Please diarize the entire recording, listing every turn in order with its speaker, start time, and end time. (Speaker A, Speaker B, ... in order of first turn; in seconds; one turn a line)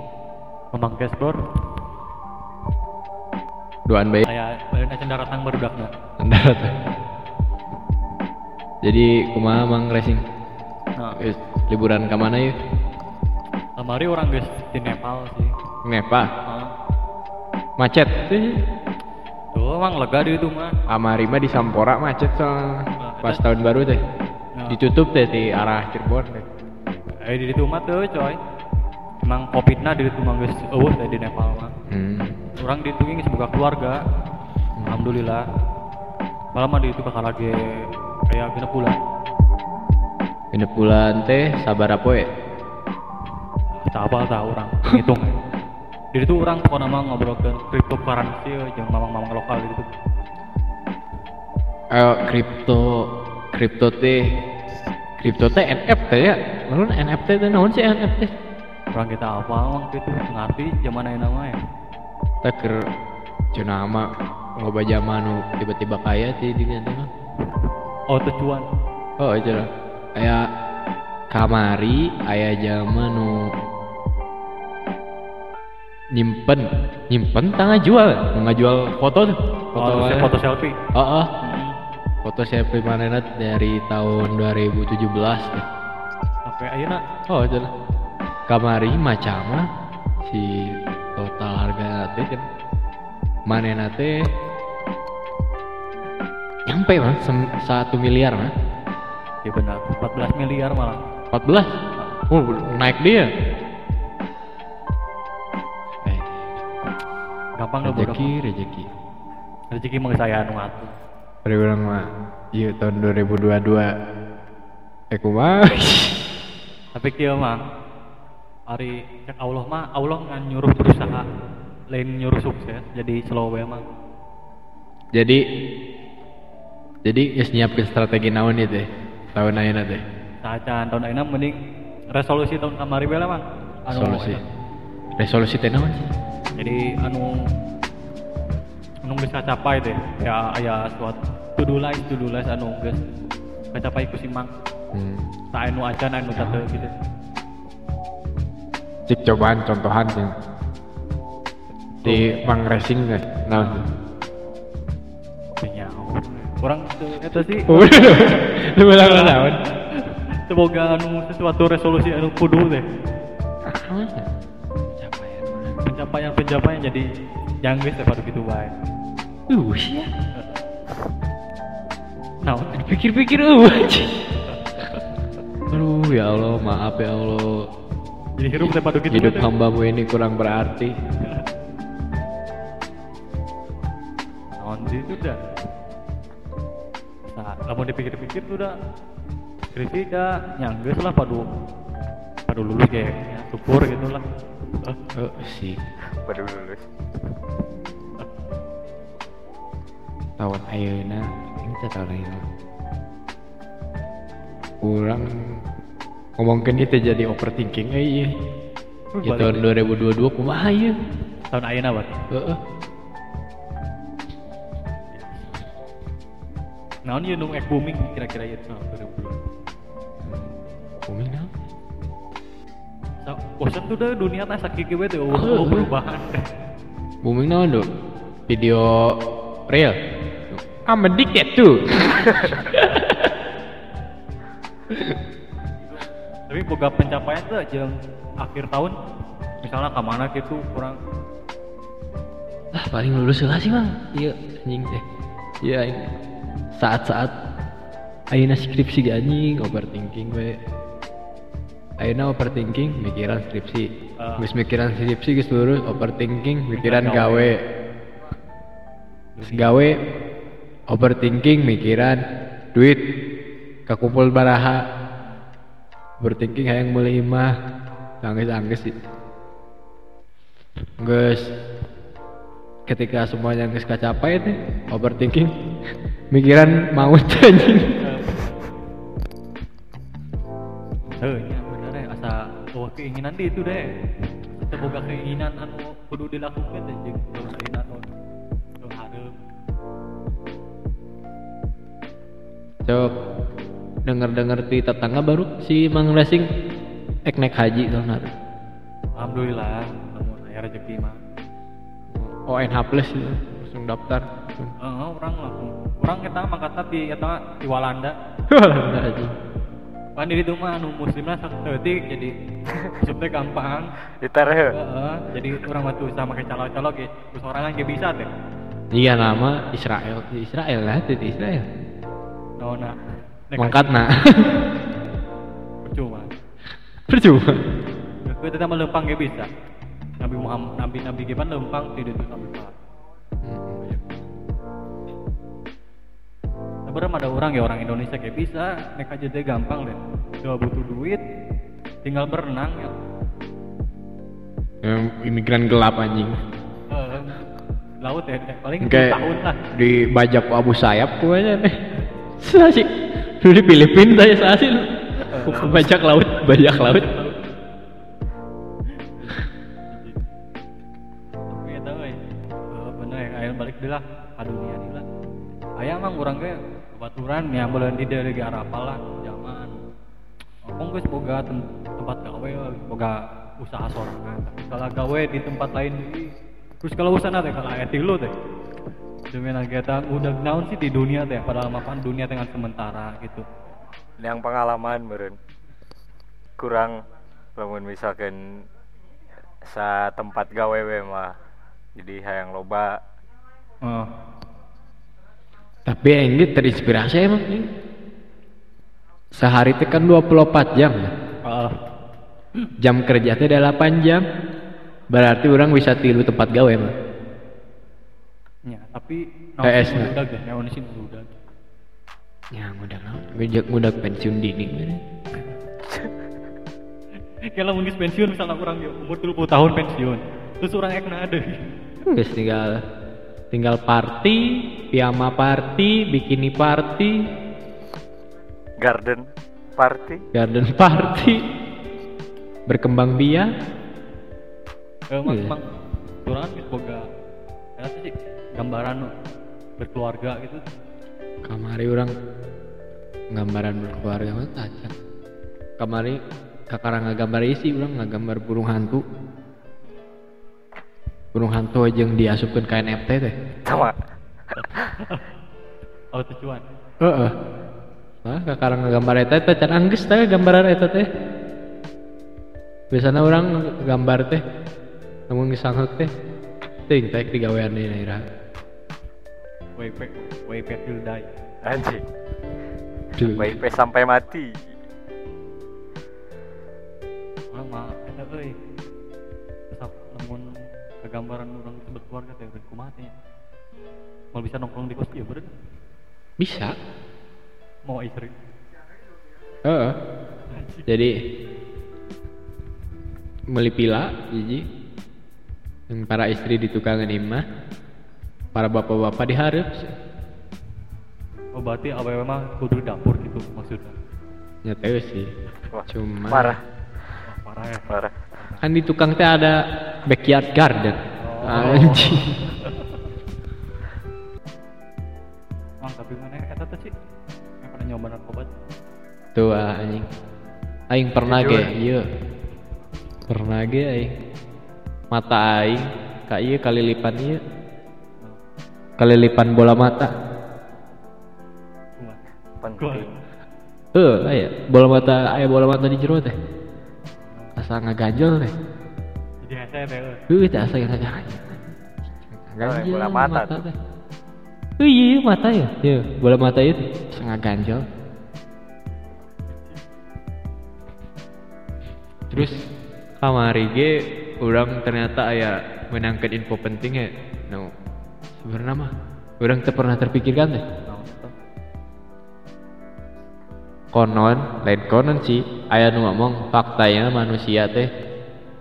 Speaker A: 0.7-1.4
Speaker B: 3.9-4.3
Speaker A: 4.2-5.9
Speaker B: 6.2-6.7
Speaker B: 8.8-10.2
Speaker B: 11.2-12.5
Speaker A: 13.8-15.5
Speaker B: 15.8-16.3
Speaker A: 16.4-16.7
Speaker B: 17.8-18.5
Speaker A: 19.6-20.8
Speaker B: 20.9-22.7
Speaker A: 23.0-23.5
Speaker B: 23.2-24.0
Speaker B: 24.7-26.4
Speaker A: 27.2-28.4
Speaker A: 29.3-31.7
Speaker B: 31.9-32.3
Speaker A: 32.6-34.0
Speaker A: 34.9-35.4
Speaker A: 36.5-37.6
Speaker A: 38.3-39.0
Speaker B: 40.5-42.2
Speaker A: 43.8-45.4
Speaker A: 46.1-49.9
Speaker B: 51.9-52.9
Speaker B: 53.5-54.2
Speaker B: 55.2-58.3
Speaker A: 58.9-61.6
Speaker B: 62.4-62.8
Speaker B: 63.5-64.1
Speaker B: 64.6-67.1
Speaker A: 68.1-68.7
Speaker B: 69.2-70.4
Speaker B: 71.3-73.3
Speaker B: 76.1-80.3
Speaker A: 79.8-80.7
Speaker B: 80.9-81.3
Speaker A: 81.4-81.8
Speaker B: 82.2-85.6
Speaker A: 86.5-87.0
Speaker B: 87.3-87.7
Speaker B: 88.5-89.6
Speaker B: 90.2-92.4
Speaker B: 93.5-94.1
Speaker B: 96.7-98.5
Speaker A: 99.4-101.0
Speaker B: 101.3-101.7
Speaker B: 102.3-103.3
Speaker B: 106.0-106.6
Speaker A: 107.6-108.3
Speaker B: 107.8-108.9
Speaker A: 109.7-110.9
Speaker B: 111.5-112.0
Speaker B: 112.6-113.9
Speaker B: 115.1-116.1
Speaker A: 116.9-117.6
Speaker A: 118.7-121.2
Speaker A: 121.9-123.8
Speaker B: 125.2-125.4
Speaker B: 127.1-130.0
Speaker A: 130.4-131.6
Speaker A: 132.2-134.4
Speaker B: 133.9-134.4
Speaker B: 135.2-136.1
Speaker A: 136.6-137.3
Speaker A: 139.1-143.0
Speaker A: 143.7-144.5
Speaker B: 144.9-145.2
Speaker A: 145.5-146.9
Speaker B: 146.3-146.6
Speaker B: 149.1-150.3
Speaker A: 152.0-152.4
Speaker B: 152.0-153.8
Speaker A: 153.6-153.8
Speaker A: 155.6-158.4
Speaker B: 157.3-159.6
Speaker A: 159.0-159.7
Speaker A: 160.5-162.8
Speaker B: 163.7-164.3
Speaker B: 165.0-165.8
Speaker A: 165.8-167.1
Speaker A: 167.7-168.7
Speaker B: 169.5-170.1
Speaker A: 172.4-172.9
Speaker B: 172.8-174.2
Speaker B: 175.7-177.5
Speaker A: 178.4-179.5
Speaker B: 178.6-180.9
Speaker A: 184.6-185.5
Speaker A: 187.3-188.7
Speaker A: 189.7-191.4
Speaker A: 192.5-194.2
Speaker B: 195.2-195.8
Speaker C: 196.2-196.8
Speaker B: 200.4-202.4
Speaker B: 204.8-205.6
Speaker B: 206.4-208.3
Speaker A: 209.2-209.6
Speaker B: 209.2-210.9
Speaker A: 211.5-212.2
Speaker B: 212.3-212.6
Speaker A: 215.1-215.5
Speaker A: 217.1-219.4
Speaker B: 221.1-221.5
Speaker A: 223.2-226.4
Speaker B: 225.3-225.9
Speaker B: 227.2-227.9
Speaker B: 228.5-229.1
Speaker B: 230.5-233.3
Speaker A: 236.5-238.9
Speaker A: 239.6-240.9
Speaker B: 242.8-245.0
Speaker B: 245.6-246.0
Speaker B: 246.8-247.3
Speaker B: 248.3-250.5
Speaker B: 252.0-253.9
Speaker A: 254.2-254.5
Speaker B: 254.4-257.6
Speaker A: 256.8-257.5
Speaker A: 259.4-259.8
Speaker B: 259.5-259.9
Speaker B: 260.9-262.2
Speaker B: 262.8-263.0
Speaker B: 263.9-264.8
Speaker B: 266.2-267.5
Speaker B: 268.2-268.9
Speaker B: 271.0-271.4
Speaker B: 272.9-275.5
Speaker B: 276.3-277.9
Speaker A: 278.0-278.5
Speaker A: 281.2-283.9
Speaker A: 284.6-288.1
Speaker A: 288.8-289.4
Speaker B: 294.1-296.4
Speaker B: 297.3-298.3
Speaker A: 299.2-301.2
Speaker B: 302.1-304.7
Speaker A: 304.8-308.1
Speaker B: 308.5-309.3
Speaker A: 310.2-312.3
Speaker A: 313.0-313.9
Speaker C: 314.2-314.8
Speaker A: 314.7-318.3
Speaker B: 318.9-321.6
Speaker A: 322.6-323.0
Speaker A: 323.5-323.9
Speaker B: 323.6-324.6
Speaker A: 325.9-326.3
Speaker B: 327.1-327.6
Speaker A: 328.2-329.5
Speaker A: 330.2-332.7
Speaker B: 333.4-334.0
Speaker A: 336.9-341.2
Speaker A: 342.1-342.9
Speaker B: 344.8-346.4
Speaker A: 346.9-347.5
Speaker A: 348.0-349.6
Speaker B: 348.8-349.2
Speaker B: 349.7-351.7
Speaker B: 352.4-352.9
Speaker B: 353.4-357.1
Speaker A: 355.3-355.9
Speaker A: 356.9-357.3
Speaker A: 359.1-360.2
Speaker A: 361.5-362.2
Speaker A: 362.7-365.1
Speaker A: 365.8-369.8
Speaker A: 370.7-376.3
Speaker A: 376.8-378.3
Speaker A: 379.3-383.5
Speaker C: 384.2-385.4
Speaker C: 386.6-387.0
Speaker C: 387.6-388.6
Speaker C: 389.6-391.4
Speaker C: 392.0-393.0
Speaker A: 393.8-394.1
Speaker B: 395.9-397.7
Speaker B: 399.3-401.1
Speaker A: 401.4-401.8
Speaker B: 402.8-404.2
Speaker B: 405.1-406.9
Speaker A: 408.7-411.3
Speaker B: 409.6-410.1
Speaker B: 412.5-415.0
Speaker A: 417.5-421.6
Speaker B: 422.1-422.7
Speaker B: 423.5-427.1
Speaker C: 428.8-429.3
Speaker C: 429.8-430.2
Speaker B: 430.3-431.4
Speaker B: 432.7-433.5
Speaker A: 435.1-437.0
Speaker B: 435.3-435.5
Speaker A: 437.8-439.1
Speaker A: 439.8-440.6
Speaker B: 441.5-442.1
Speaker B: 443.3-444.9
Speaker B: 445.8-446.2
Speaker B: 446.7-449.0
Speaker B: 451.3-453.4
Speaker C: 453.7-453.9
Speaker A: 454.6-455.2
Speaker A: 456.1-456.6
Speaker B: 457.0-457.3
Speaker B: 458.2-461.1
Speaker B: 462.9-464.4
Speaker B: 465.3-466.1
Speaker B: 466.9-468.2
Speaker A: 469.8-471.3
Speaker C: 471.6-472.0
Speaker B: 473.2-473.6
Speaker C: 473.4-474.6
Speaker A: 477.5-478.5
Speaker A: 479.7-480.5
Speaker A: 481.0-483.1
Speaker A: 484.3-485.5
Speaker B: 486.4-486.7
Speaker A: 487.9-488.4
Speaker B: 489.6-489.9
Speaker A: 490.5-490.9
Speaker B: 490.9-491.1
Speaker B: 493.5-494.6
Speaker B: 495.9-497.4
Speaker B: 498.6-499.8
Speaker A: 501.6-503.9
Speaker B: 504.6-505.3
Speaker C: 505.7-506.6
Speaker B: 505.9-506.6
Speaker A: 507.2-508.6
Speaker C: 507.9-508.1
Speaker B: 508.6-512.2
Speaker A: 511.2-512.8
Speaker A: 515.8-516.9
Speaker A: 517.6-518.5
Speaker B: 519.4-520.0
Speaker B: 520.9-522.0
Speaker A: 521.3-521.6
Speaker B: 523.3-524.1
Speaker B: 525.1-527.4
Speaker B: 529.0-530.1
Speaker C: 532.6-533.1
Speaker A: 532.8-533.1
Speaker B: 534.0-536.3
Speaker A: 537.2-537.5
Speaker B: 537.6-538.5
Speaker A: 539.4-540.2
Speaker B: 540.3-541.7
Speaker B: 542.3-543.8
Speaker C: 542.6-543.6
Speaker B: 544.8-547.8
Speaker B: 552.3-552.6
Speaker B: 553.2-557.7
Speaker B: 558.4-558.9
Speaker B: 559.4-560.6
Speaker A: 560.9-561.3
Speaker B: 563.9-567.9